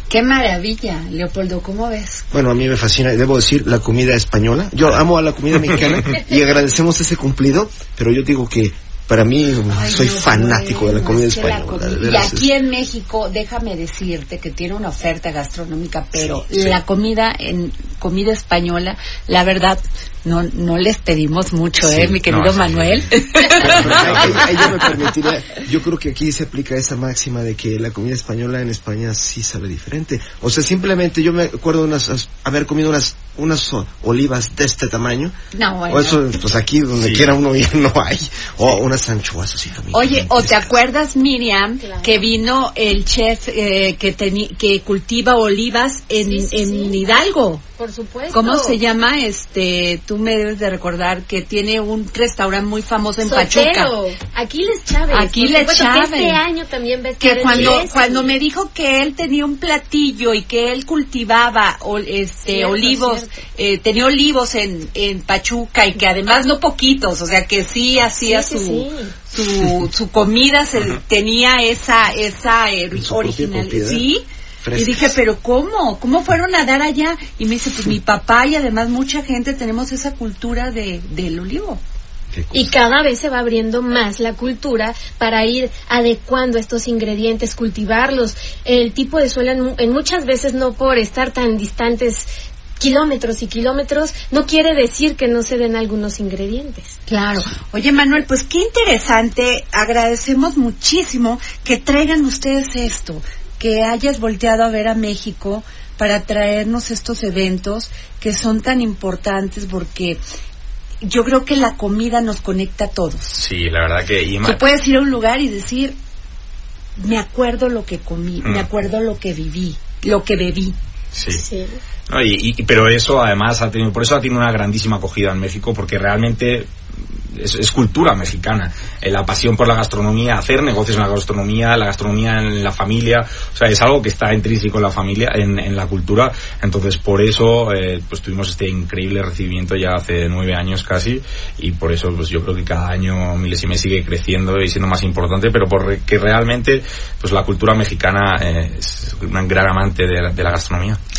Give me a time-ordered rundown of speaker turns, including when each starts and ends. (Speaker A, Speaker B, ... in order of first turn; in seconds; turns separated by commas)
Speaker A: 0.1-2.2, Speaker B: 2.3-12.5, Speaker A: 9.7-24.4, Speaker C: 16.1-16.8, Speaker C: 21.8-23.1, Speaker B: 23.6-35.3, Speaker C: 23.7-24.5, Speaker A: 35.5-36.2, Speaker B: 35.9-40.7, Speaker C: 37.0-37.3, Speaker A: 39.9-47.6, Speaker D: 41.8-42.2, Speaker D: 46.2-47.0, Speaker D: 47.8-48.8, Speaker A: 48.3-53.9, Speaker D: 53.2-58.4, Speaker A: 55.1-56.4, Speaker A: 57.2-81.8, Speaker C: 57.5-57.8, Speaker D: 62.5-63.4, Speaker D: 68.2-69.2, Speaker B: 73.0-74.1, Speaker B: 74.6-75.1, Speaker B: 82.3-82.7, Speaker D: 82.5-97.0, Speaker A: 97.1-110.2, Speaker A: 111.0-113.4, Speaker C: 113.3-114.6, Speaker A: 114.4-116.0, Speaker A: 117.0-120.8, Speaker C: 118.4-118.7, Speaker C: 121.1-121.5, Speaker D: 121.3-121.8, Speaker C: 122.1-126.7, Speaker C: 127.3-151.0